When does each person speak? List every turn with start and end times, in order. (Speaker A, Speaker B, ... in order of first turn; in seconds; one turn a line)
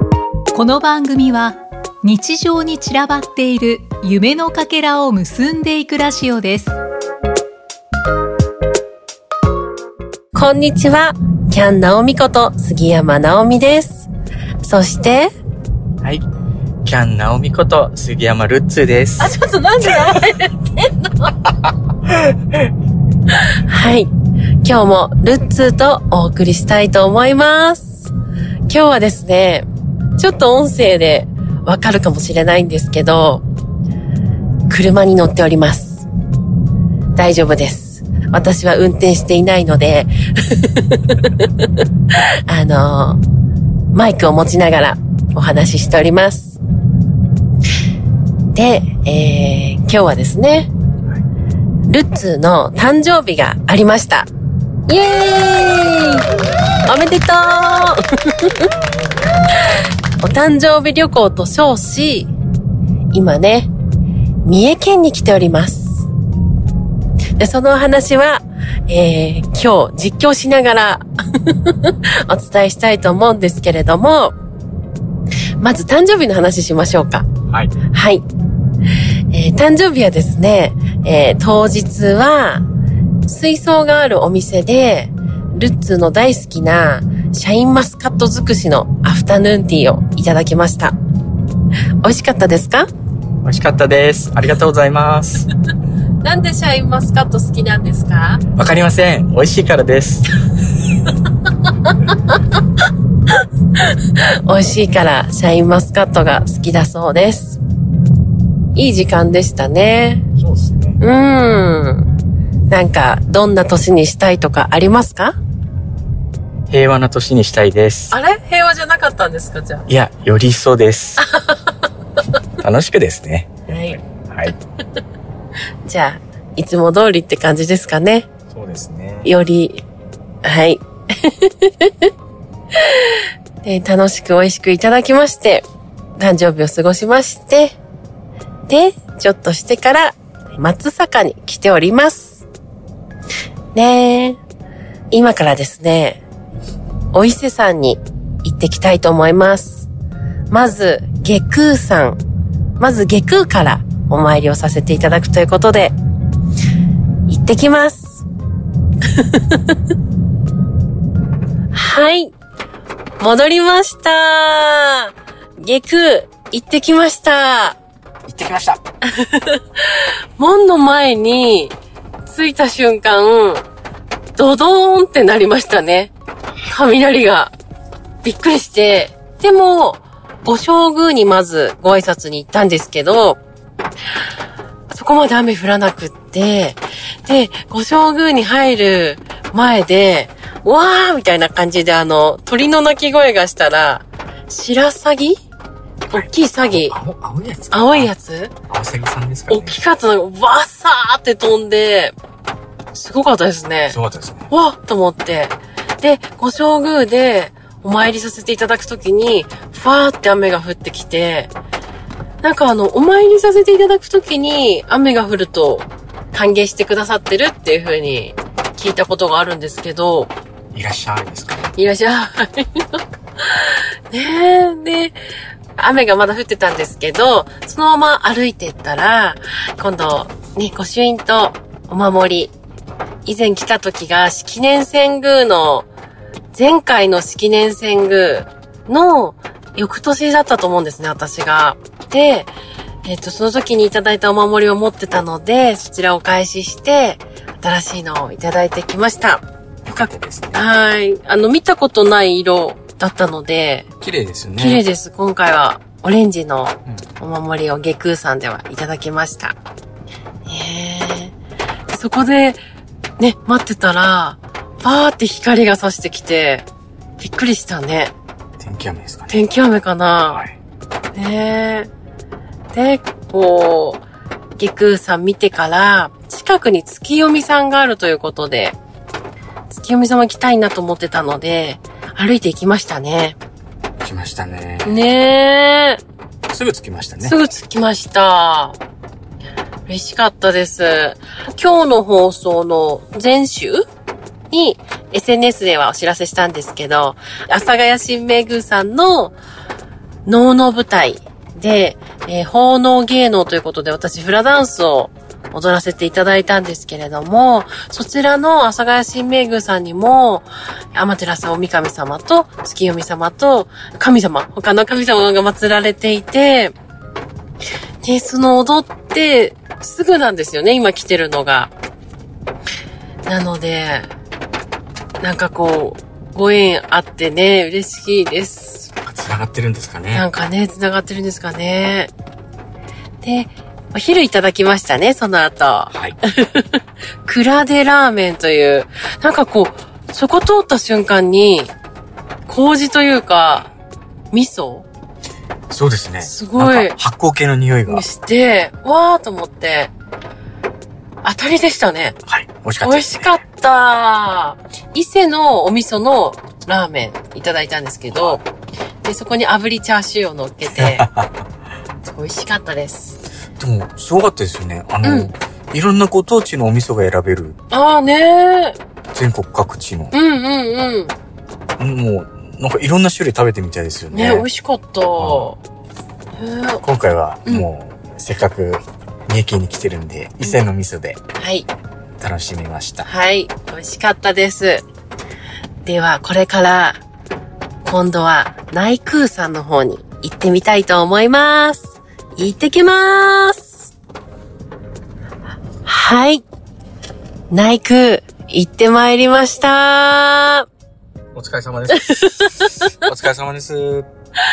Speaker A: 0.5-6.8
Speaker B: 10.3-14.1
Speaker B: 14.6-15.3
Speaker C: 16.9-19.3
Speaker B: 19.2-21.4
Speaker B: 23.6-24.1
Speaker B: 24.6-28.1
Speaker B: 28.7-29.7
Speaker B: 30.2-33.4
Speaker B: 34.7-36.1
Speaker B: 37.2-41.7
Speaker B: 42.5-43.2
Speaker B: 43.9-46.6
Speaker B: 48.5-50.7
Speaker B: 51.9-54.3
Speaker B: 54.9-56.3
Speaker B: 56.9-58.7
Speaker B: 60.2-62.3
Speaker B: 63.1-63.7
Speaker B: 64.5-66.0
Speaker B: 67.4-74.3
Speaker B: 75.6-77.3
Speaker B: 77.9-78.2
Speaker B: 79.3-82.6
Speaker B: 83.2-91.0
Speaker B: 92.0-92.9
Speaker C: 93.4-95.5
Speaker B: 96.2-98.4
Speaker C: 98.6-100.3
Speaker B: 104.2-107.6
Speaker B: 108.8-110.2
Speaker C: 110.4-111.0
Speaker B: 111.0-112.1
Speaker B: 112.7-115.3
Speaker C: 116.7-118.1
Speaker B: 118.1-119.9
Speaker C: 119.9-121.2
Speaker B: 121.2-121.6
Speaker C: 122.6-124.6
Speaker B: 123.7-124.0
Speaker B: 125.8-128.3
Speaker C: 128.5-129.3
Speaker B: 129.2-129.8
Speaker B: 130.4-132.1
Speaker B: 132.8-135.7
Speaker B: 136.2-137.8
Speaker B: 138.7-142.4
Speaker B: 143.7-144.4
Speaker B: 145.1-146.2
Speaker B: 147.1-149.9
Speaker B: 150.5-152.2
Speaker B: 152.8-155.9
Speaker B: 157.3-158.2
Speaker B: 159.1-159.8
Speaker B: 161.7-162.3
Speaker B: 163.2-167.8
Speaker C: 168.3-168.8
Speaker B: 169.2-171.8
Speaker B: 172.3-173.7
Speaker B: 174.4-176.1
Speaker B: 176.7-177.5
Speaker B: 178.2-183.4
Speaker B: 184.9-195.4
Speaker B: 196.1-197.0
Speaker C: 196.1-198.1
Speaker B: 197.7-198.5
Speaker C: 198.7-199.8
Speaker B: 199.5-202.2
Speaker B: 202.9-204.0
Speaker C: 203.9-204.5
Speaker B: 204.5-211.5
Speaker B: 212.4-220.3
Speaker C: 220.7-221.7
Speaker B: 221.8-225.2
Speaker B: 225.8-232.5
Speaker B: 233.3-235.9
Speaker B: 236.5-242.5
Speaker B: 243.1-249.4
Speaker C: 249.8-250.7
Speaker B: 249.9-253.9
Speaker C: 254.0-254.8
Speaker B: 254.6-259.6
Speaker B: 260.5-261.3
Speaker B: 261.9-262.6
Speaker B: 263.2-266.7
Speaker B: 267.2-268.1
Speaker C: 268.6-269.4
Speaker B: 269.3-270.4
Speaker C: 270.3-270.6
Speaker B: 271.1-271.9
Speaker B: 272.7-274.0
Speaker B: 274.6-278.8
Speaker B: 279.7-283.4
Speaker C: 284.0-285.0
Speaker B: 284.9-286.0
Speaker C: 286.5-287.4
Speaker B: 287.2-288.8
Speaker B: 289.9-293.8
Speaker B: 294.5-299.4
Speaker B: 300.3-316.7
Speaker B: 318.0-321.7
Speaker B: 323.3-324.1
Speaker B: 325.2-328.9
Speaker C: 329.0-330.2
Speaker B: 330.1-332.1
Speaker B: 333.2-341.7
Speaker C: 335.9-336.2
Speaker B: 342.5-343.7
Speaker B: 344.3-344.9
Speaker C: 345.7-348.1
Speaker B: 346.2-346.9
Speaker B: 347.9-349.9
Speaker B: 351.2-352.2
Speaker C: 352.3-353.3
Speaker B: 352.8-358.4
Speaker C: 358.1-358.4
Speaker B: 359.0-361.1
Speaker C: 360.7-361.4
Speaker B: 362.1-363.2
Speaker C: 363.6-367.6
Speaker B: 365.0-365.3
Speaker B: 367.7-368.8
Speaker C: 369.1-370.1
Speaker B: 370.1-371.1
Speaker C: 371.8-374.5
Speaker B: 374.1-375.6
Speaker C: 375.2-375.5
Speaker B: 376.4-376.8
Speaker C: 376.8-381.2
Speaker B: 381.4-381.7
Speaker C: 382.2-383.1
Speaker B: 383.1-384.8
Speaker B: 385.9-387.0
Speaker B: 387.8-393.9
Speaker B: 395.9-396.4
Speaker B: 397.5-400.7
Speaker C: 401.4-404.1
Speaker B: 402.0-402.9